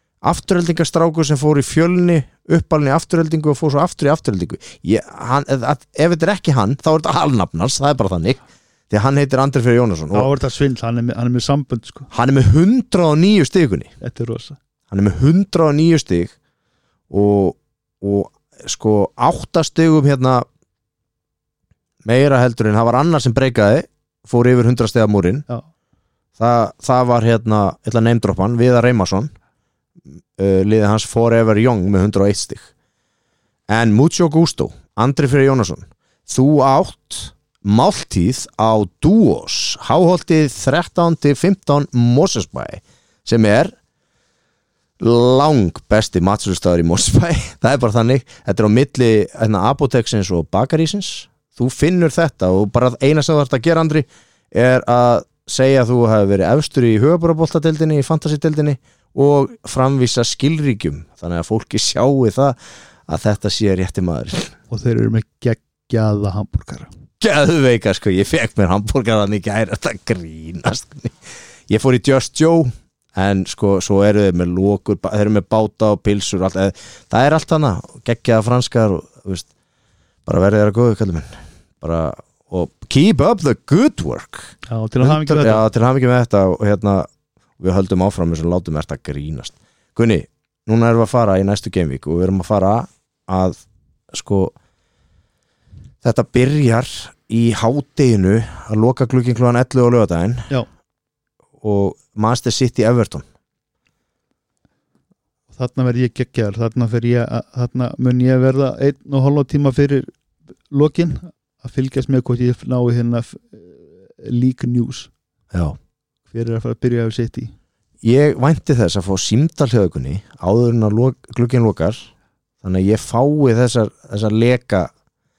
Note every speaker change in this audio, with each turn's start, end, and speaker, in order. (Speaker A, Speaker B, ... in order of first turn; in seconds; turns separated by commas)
Speaker A: 0.2-10.3, Speaker B: 10.1-12.1, Speaker A: 12.1-13.9, Speaker B: 14.0-14.6, Speaker A: 14.9-16.3, Speaker A: 17.1-20.5, Speaker A: 22.1-25.5, Speaker A: 26.4-29.3, Speaker A: 30.4-32.7, Speaker A: 33.7-43.7, Speaker A: 45.0-64.5, Speaker B: 64.7-66.9, Speaker A: 67.2-71.2, Speaker A: 71.7-79.5, Speaker A: 80.3-87.1, Speaker B: 84.7-85.6, Speaker A: 87.6-93.6, Speaker A: 94.1-94.5, Speaker A: 96.0-100.5, Speaker A: 101.6-103.2, Speaker B: 105.5-110.1, Speaker B: 110.7-115.1, Speaker A: 115.5-115.8, Speaker B: 116.3-117.5, Speaker A: 118.0-122.1, Speaker A: 122.6-124.9